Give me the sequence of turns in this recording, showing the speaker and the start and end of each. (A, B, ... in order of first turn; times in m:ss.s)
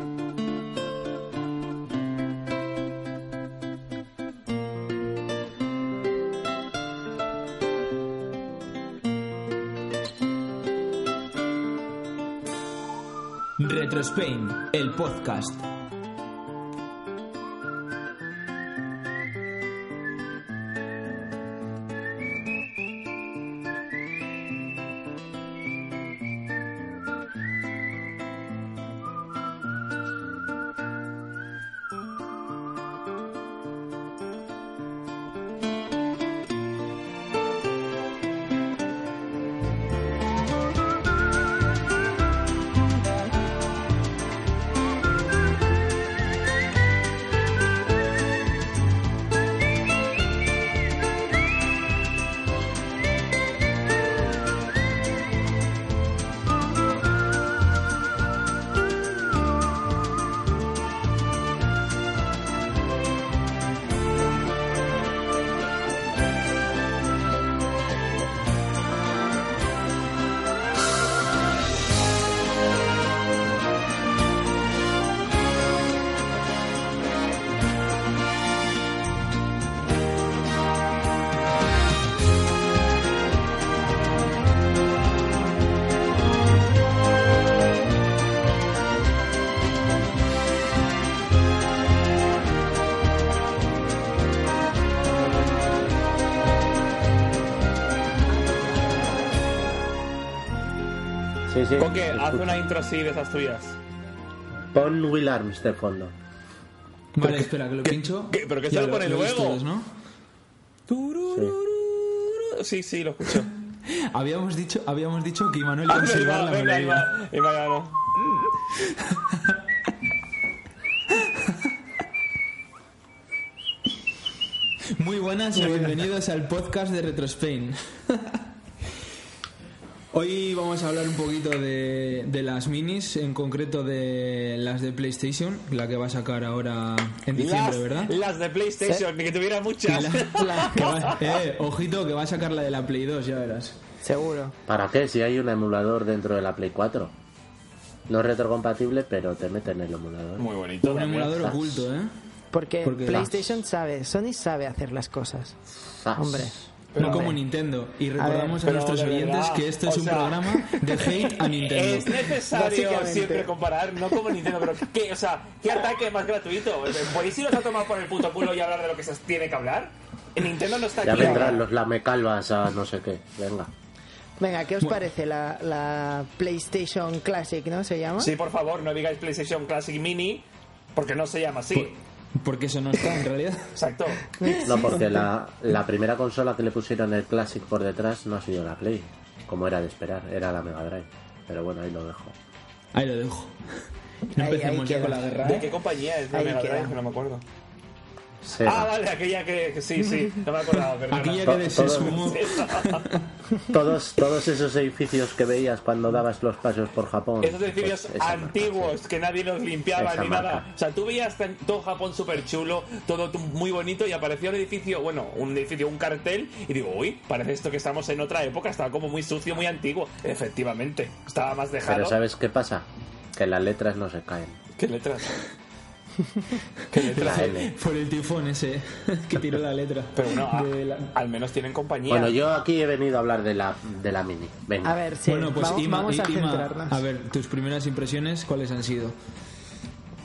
0:13.6-0:15.7 A
1:41.5-1:42.6 B
1:41.8-1:43.8 C
1:44.7-1:46.1 B
1:47.1-1:49.9 A
1:47.2-1:49.6 C
1:50.9-1:53.5 C
1:51.3-1:51.5 B
1:53.9-1:57.1 A
1:55.9-1:58.0 C
1:59.0-1:59.6 A
2:01.1-2:01.5 A
2:05.0-2:08.4 A
2:05.5-2:06.0 D
2:10.1-2:18.1 A
2:17.4-2:21.1 C
2:19.9-2:23.8 A
2:20.4-2:21.1 D
2:24.0-2:24.5 D
2:24.7-2:27.1 B
2:28.1-2:30.5 B
2:30.4-2:31.3 C
2:30.8-2:32.1 A
2:31.1-2:31.9 B
2:32.5-2:35.6 D
2:32.8-2:33.4 A
2:33.1-2:33.4 B
2:35.8-2:36.7 B
2:36.2-2:37.4 D
2:36.9-2:37.4 C
2:37.0-2:42.2 A
2:38.2-2:38.6 D
2:38.6-2:51.6 C
2:42.5-2:43.5 D
2:51.0-2:53.7 B
2:51.2-2:51.4 D
2:54.4-2:58.3 D
2:58.2-3:01.9 C
3:01.7-3:03.7 A
3:03.7-3:04.2 C
3:04.4-3:05.2 D
3:04.6-3:12.3 B
3:12.9-3:13.5 A
3:14.4-3:15.2 D
3:14.4-3:15.7 A
3:15.4-3:17.4 C
3:16.3-3:16.9 D
3:18.4-3:18.9 B
3:18.6-3:23.0 C
3:21.1-3:23.2 A
3:21.4-3:22.3 B
3:23.7-3:29.0 B
3:27.4-3:42.2 C
3:30.0-3:30.6 B
3:41.8-3:44.6 B
3:44.8-3:45.3 C
3:46.9-3:47.6 C
3:47.1-3:51.1 A
3:47.2-3:47.7 B
3:50.1-3:52.4 C
3:52.1-3:54.9 B
3:54.8-3:57.0 D
3:55.2-3:59.2 A